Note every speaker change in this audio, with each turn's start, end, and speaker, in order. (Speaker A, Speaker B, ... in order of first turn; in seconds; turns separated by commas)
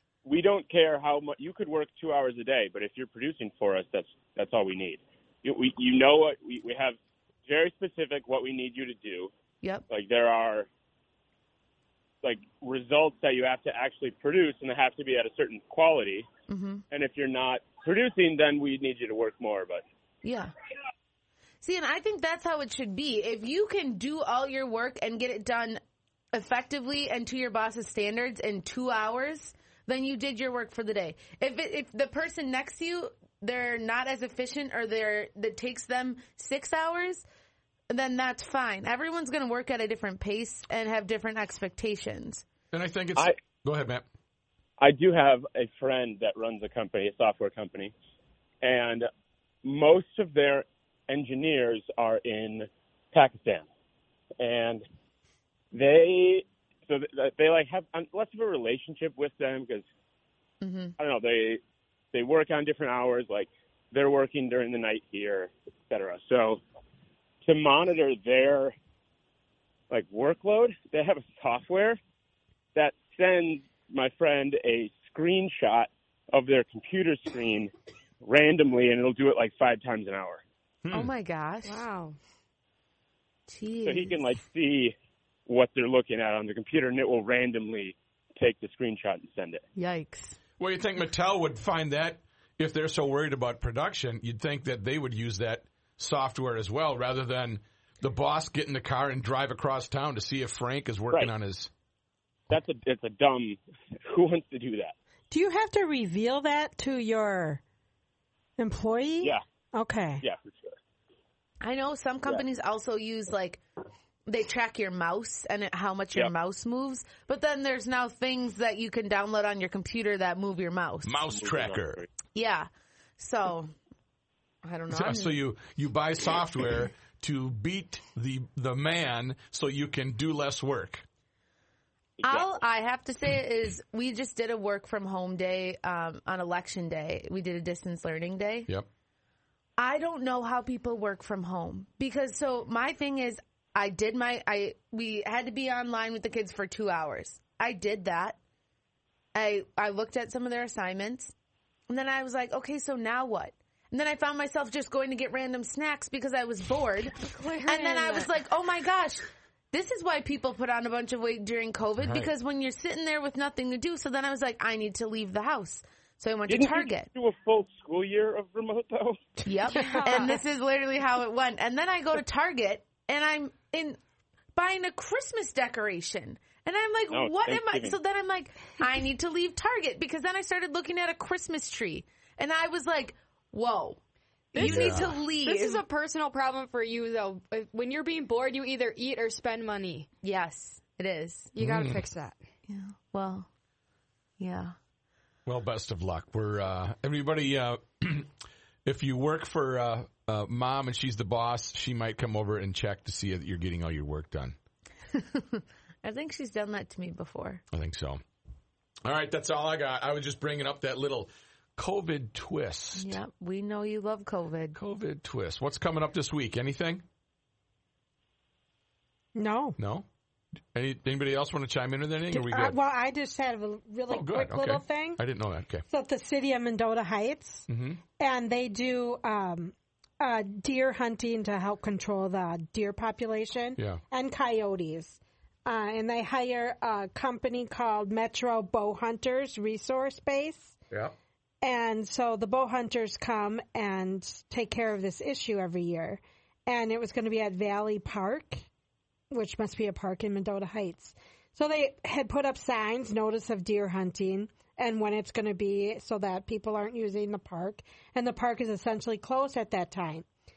Speaker A: 0.2-9.3, Speaker A: 9.9-10.7, Speaker A: 12.2-16.2, Speaker B: 16.5-16.8, Speaker A: 16.9-19.8, Speaker B: 20.2-20.5, Speaker B: 21.6-25.8, Speaker B: 26.3-37.2, Speaker B: 37.9-42.4, Speaker C: 42.7-44.0, Speaker A: 44.8-47.9, Speaker A: 48.6-49.1, Speaker A: 49.6-53.7, Speaker A: 54.4-54.8, Speaker A: 55.7-59.9, Speaker B: 60.6-61.0, Speaker A: 61.0-61.6, Speaker A: 62.1-66.6, Speaker A: 67.4-68.7, Speaker A: 69.9-72.0, Speaker A: 72.7-80.4, Speaker C: 80.8-81.1, Speaker B: 80.9-81.8, Speaker D: 81.6-82.2, Speaker B: 83.5-84.2, Speaker A: 83.8-89.6, Speaker B: 89.8-90.4, Speaker C: 90.6-101.7, Speaker A: 102.5-104.9, Speaker E: 105.3-107.6, Speaker E: 108.6-110.2, Speaker A: 110.2-110.8, Speaker B: 111.6-113.6, Speaker B: 114.3-121.2, Speaker C: 121.0-122.0, Speaker A: 121.3-122.0, Speaker B: 122.3-123.7, Speaker B: 124.6-125.3, Speaker C: 124.9-131.0, Speaker A: 132.2-132.5, Speaker B: 132.2-138.7, Speaker B: 139.8-148.4, Speaker B: 149.3-151.3, Speaker B: 151.9-167.1, Speaker D: 157.0-158.3, Speaker C: 162.0-162.3, Speaker A: 166.5-169.3, Speaker B: 169.4-174.0, Speaker D: 169.7-170.4, Speaker E: 169.7-170.3, Speaker B: 174.5-184.0, Speaker A: 177.1-178.0, Speaker B: 184.5-185.8, Speaker D: 184.5-190.1, Speaker C: 184.6-185.2, Speaker B: 190.2-191.5, Speaker D: 191.5-192.4, Speaker C: 191.6-192.0, Speaker B: 192.7-193.5, Speaker B: 194.4-194.7, Speaker C: 195.4-198.3, Speaker C: 198.8-204.6, Speaker B: 205.1-207.6, Speaker C: 207.7-208.2, Speaker C: 209.0-213.2, Speaker B: 213.0-214.8, Speaker C: 214.7-217.0, Speaker E: 219.3-219.8, Speaker C: 219.8-220.1, Speaker C: 220.7-222.8, Speaker E: 222.3-225.2, Speaker C: 224.1-225.8, Speaker E: 225.9-240.8, Speaker C: 227.7-228.0, Speaker E: 241.6-248.7, Speaker E: 249.3-260.2